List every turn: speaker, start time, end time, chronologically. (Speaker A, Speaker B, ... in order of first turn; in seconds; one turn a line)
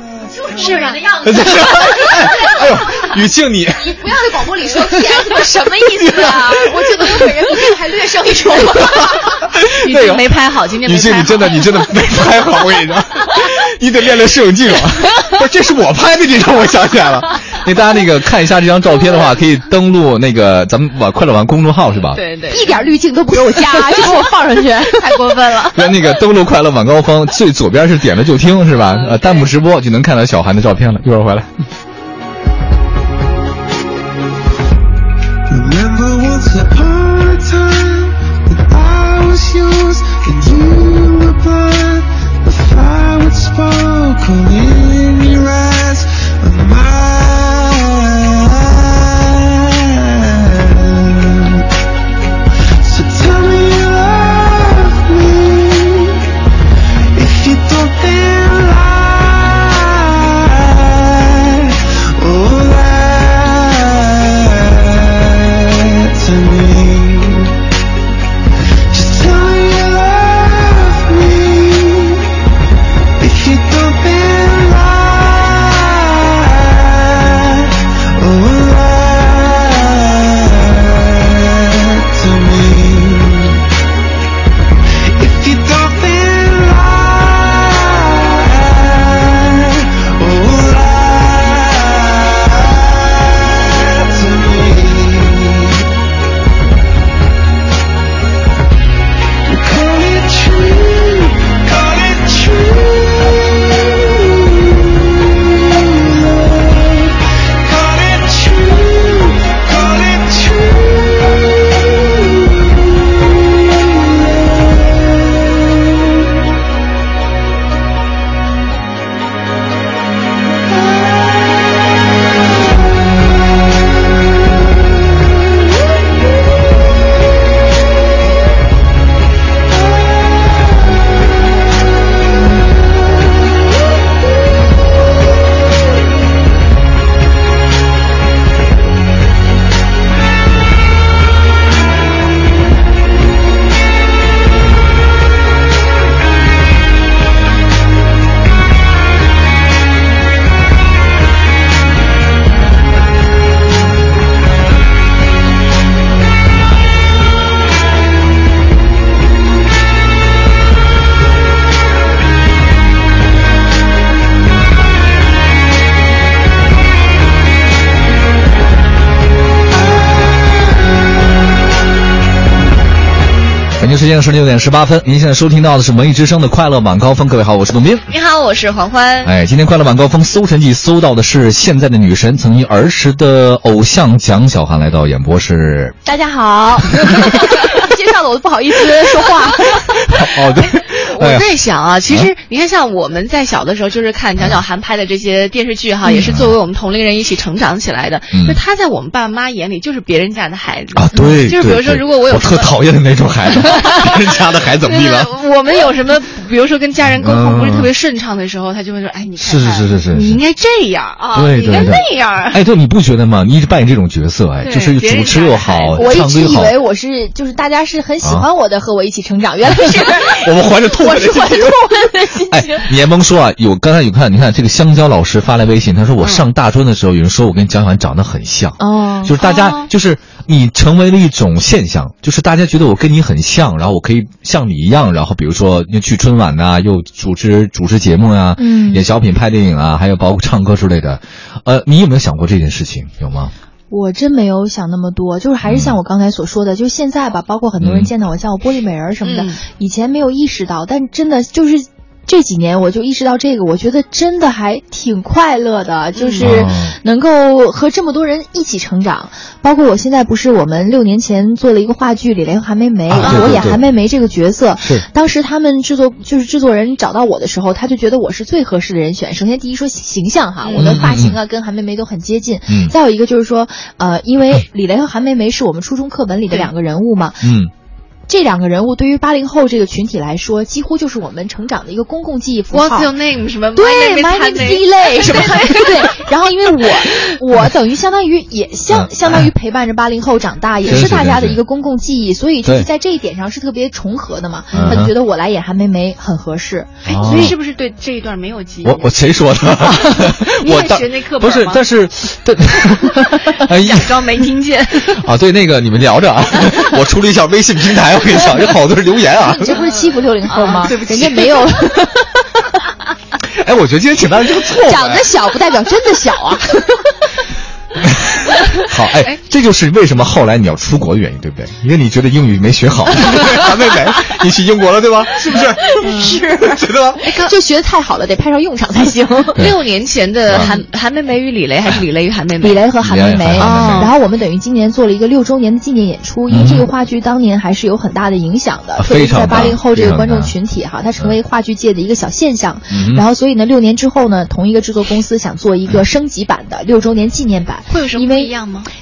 Speaker A: 0.3-3.1
Speaker B: 0.6-1.1
Speaker C: 1.2-4.1
Speaker A: 3.8-9.2
Speaker B: 5.3-5.7
Speaker C: 6.0-6.6
Speaker C: 8.7-22.2
Speaker B: 9.8-11.7
Speaker B: 22.1-22.9
Speaker A: 22.5-25.2
Speaker B: 23.5-24.2
Speaker B: 24.8-25.9
Speaker C: 25.7-31.5
Speaker B: 28.9-29.5
Speaker D: 35.5-51.7
Speaker D: 52.8-56.4
Speaker D: 57.1-67.6
Speaker D: 68.9-72.3
Speaker D: 73.2-83.7
Speaker D: 85.0-95.9
Speaker D: 99.4-112.5
Speaker C: 173.8-178.1
Speaker B: 178.1-179.3
Speaker C: 179.2-185.9
Speaker A: 186.0-190.0
Speaker C: 190.1-191.4
Speaker B: 191.1-202.8
Speaker A: 196.1-196.3
Speaker C: 196.2-196.5
Speaker C: 198.3-198.6
Speaker C: 200.9-205.3
Speaker A: 201.1-201.4
Speaker B: 203.5-204.1
Speaker B: 204.8-212.6
Speaker C: 207.1-207.9
Speaker C: 209.4-210.4
Speaker C: 211.3-216.8
Speaker B: 214.6-216.1
Speaker A: 215.9-222.9
Speaker C: 218.2-218.5
Speaker C: 220.2-221.8
Speaker C: 222.5-243.5
Speaker A: 228.8-229.4
Speaker B: 229.4-229.9
Speaker A: 238.6-239.1
Speaker A: 243.9-277.6
Speaker C: 245.6-246.0
Speaker C: 247.8-248.1
Speaker B: 249.2-249.6
Speaker B: 256.1-256.5
Speaker C: 256.4-257.0
Speaker C: 263.1-263.8
Speaker B: 263.2-263.8
Speaker B: 270.6-271.0
Speaker C: 270.8-271.4
Speaker C: 272.7-272.9
Speaker C: 277.4-277.7
Speaker A: 278.3-283.1
Speaker B: 282.7-286.3
Speaker A: 283.7-297.6
Speaker B: 286.8-287.4
Speaker C: 288.9-289.5
Speaker C: 290.9-291.6
Speaker B: 294.7-295.1
Speaker C: 294.7-295.1
Speaker C: 297.1-297.6
Speaker B: 297.1-299.1
Speaker C: 298.8-304.2
Speaker B: 299.8-301.9
Speaker B: 303.5-305.2
Speaker C: 305.1-309.7
Speaker A: 309.3-312.7
Speaker B: 309.7-311.9
Speaker C: 313.6-315.3
Speaker A: 314.9-317.3
Speaker C: 318.0-327.2
Speaker A: 325.5-329.7
Speaker B: 326.0-326.4
Speaker B: 327.2-327.5
Speaker B: 329.5-332.8
Speaker C: 330.5-330.7
Speaker A: 330.5-330.8
Speaker A: 332.6-348.5
Speaker C: 333.0-334.1
Speaker B: 333.6-334.1
Speaker C: 336.5-336.9
Speaker C: 339.0-340.5
Speaker C: 342.9-343.2
Speaker B: 347.9-348.9